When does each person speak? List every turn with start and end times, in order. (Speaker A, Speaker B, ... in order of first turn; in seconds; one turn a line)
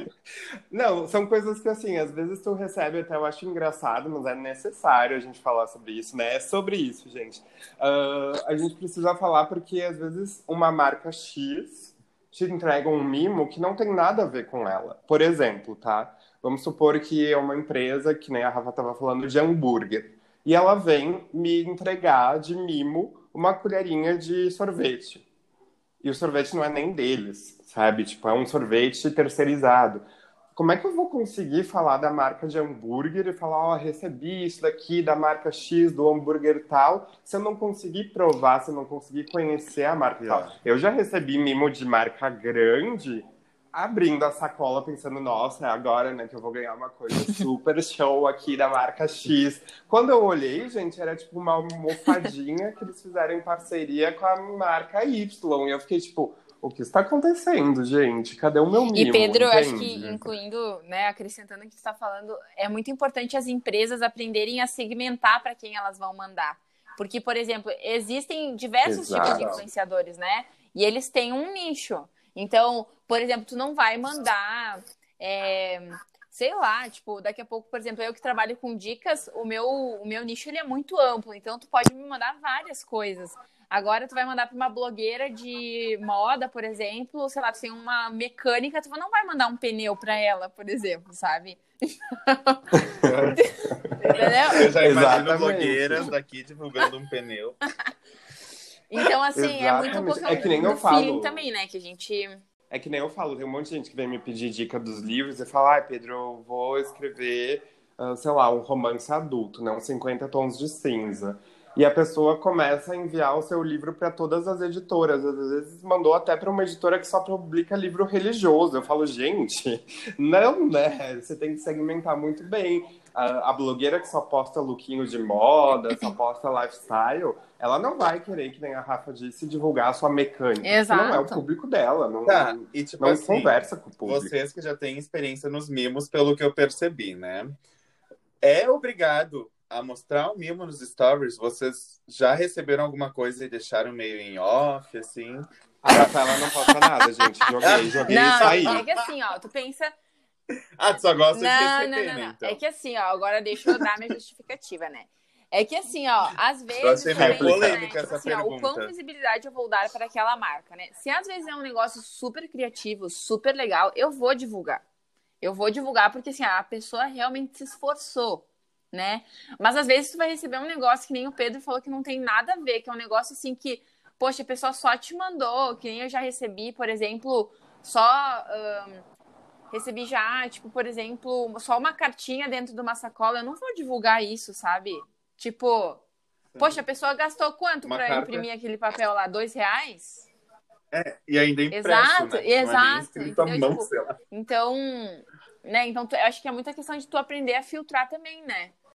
Speaker A: 0.7-25.2
Speaker A: 26.0-60.0
Speaker B: 40.2-40.5
Speaker C: 58.9-92.6
Speaker B: 59.9-60.3
Speaker A: 68.8-69.6
Speaker B: 69.2-69.6
Speaker A: 92.7-96.1
Speaker B: 93.0-93.4
Speaker C: 93.3-94.7
Speaker B: 94.1-97.6
Speaker C: 98.9-102.4
Speaker A: 99.3-101.4
Speaker B: 100.3-100.6
Speaker A: 102.7-134.3
Speaker C: 130.6-131.4
Speaker B: 132.3-137.6
Speaker B: 138.4-145.5
Speaker A: 145.8-148.8
Speaker B: 147.6-148.9
Speaker C: 148.1-149.9
Speaker B: 150.8-152.6
Speaker C: 151.3-164.8
Speaker B: 156.8-158.9
Speaker A: 157.2-157.8
Speaker C: 165.4-179.0
Speaker C: 179.7-186.0
Speaker B: 186.5-186.8
Speaker C: 186.6-190.3
Speaker B: 187.8-188.4
Speaker B: 190.9-194.1
Speaker C: 191.7-198.7